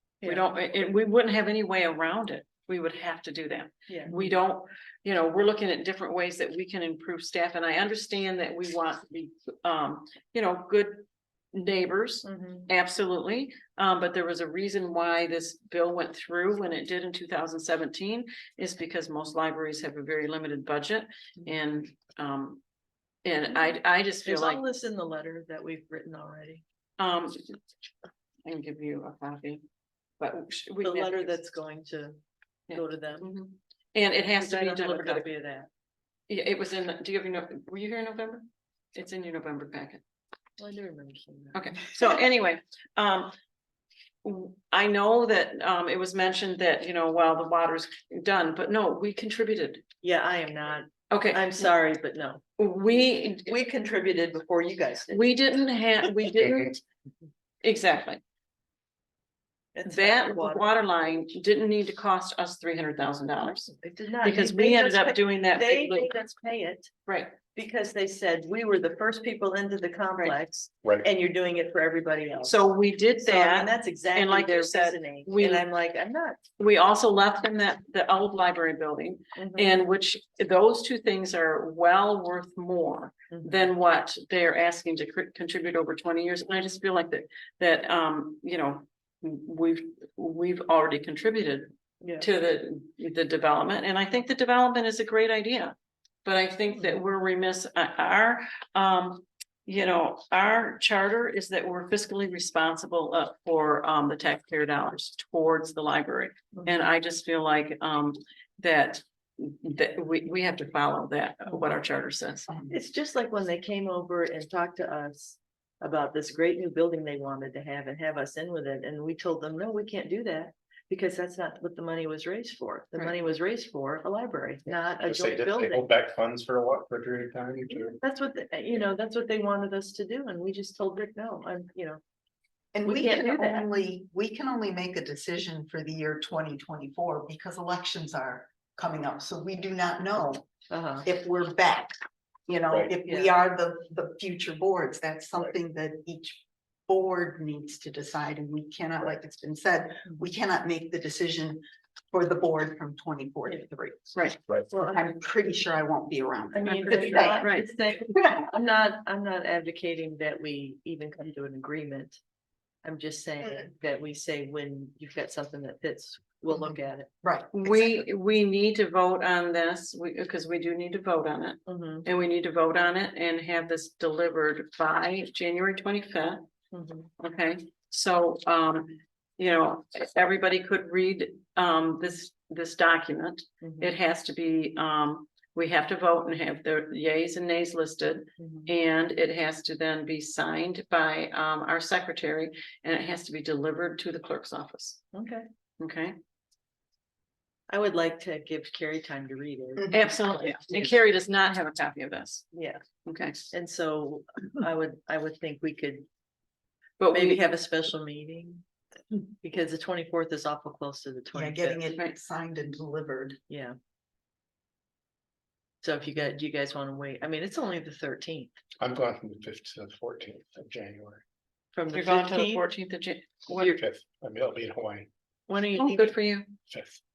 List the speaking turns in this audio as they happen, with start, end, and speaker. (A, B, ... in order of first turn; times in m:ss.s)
0:00.2-0:00.9 A
0:00.2-0:22.6 B
0:03.9-0:04.4 A
0:12.2-0:12.7 A
0:23.2-0:24.6 B
0:24.2-0:26.6 A
0:27.0-0:27.5 B
0:28.4-0:29.6 B
0:30.2-0:31.4 B
0:30.8-0:32.2 A
0:32.7-0:33.3 A
0:32.7-0:35.3 B
0:34.3-0:35.7 A
0:36.3-0:40.0 B
0:40.6-0:41.8 A
0:41.5-0:43.3 B
0:44.2-0:49.8 B
0:50.0-0:55.4 A
0:51.1-0:51.7 B
0:52.6-0:53.5 B
0:55.1-0:56.8 B
0:57.6-0:58.2 B
0:59.7-1:00.6 A
0:59.8-1:03.7 B
1:03.6-1:06.9 A
1:04.2-1:06.1 B
1:07.0-1:07.3 B
1:07.5-1:16.4 A
1:12.4-1:15.6 B
1:16.6-1:52.5 B
1:19.4-1:19.8 A
1:23.3-1:23.6 A
1:32.0-1:32.3 A
1:36.7-1:37.0 A
1:52.5-1:52.7 C
1:52.7-2:05.9 A
2:05.0-2:08.0 D
2:07.7-2:12.0 A
2:12.7-2:20.5 C
2:12.8-2:13.7 A
2:20.7-2:21.1 A
2:21.0-2:21.9 C
2:22.5-2:34.2 C
2:23.0-2:23.3 A
2:34.7-2:37.5 C
2:34.7-2:35.0 A
2:36.5-2:42.2 A
2:36.6-2:37.7 B
2:38.1-2:38.4 C
2:42.8-2:47.1 A
2:43.4-2:43.7 C
2:46.5-2:48.0 C
2:47.5-2:56.4 B
2:51.7-2:52.0 A
2:56.7-2:57.1 A
2:57.2-3:15.0 B
3:03.6-3:03.9 A
3:08.4-3:08.7 A
3:15.1-3:15.5 A
3:15.8-3:16.2 B
3:17.7-3:20.9 A
3:19.9-3:22.5 B
3:22.5-3:22.8 A
3:23.0-3:23.5 B
3:23.5-3:26.0 A
3:27.0-3:27.4 B
3:27.1-3:28.6 A
3:29.4-3:31.8 A
3:31.3-3:33.4 C
3:33.5-3:33.8 A
3:35.8-3:38.5 A
3:38.8-3:41.2 D
3:41.7-3:42.7 A
3:41.9-3:43.8 B
3:43.7-3:45.1 D
3:45.5-3:46.2 A
3:45.7-3:46.5 B
3:46.7-3:47.0 D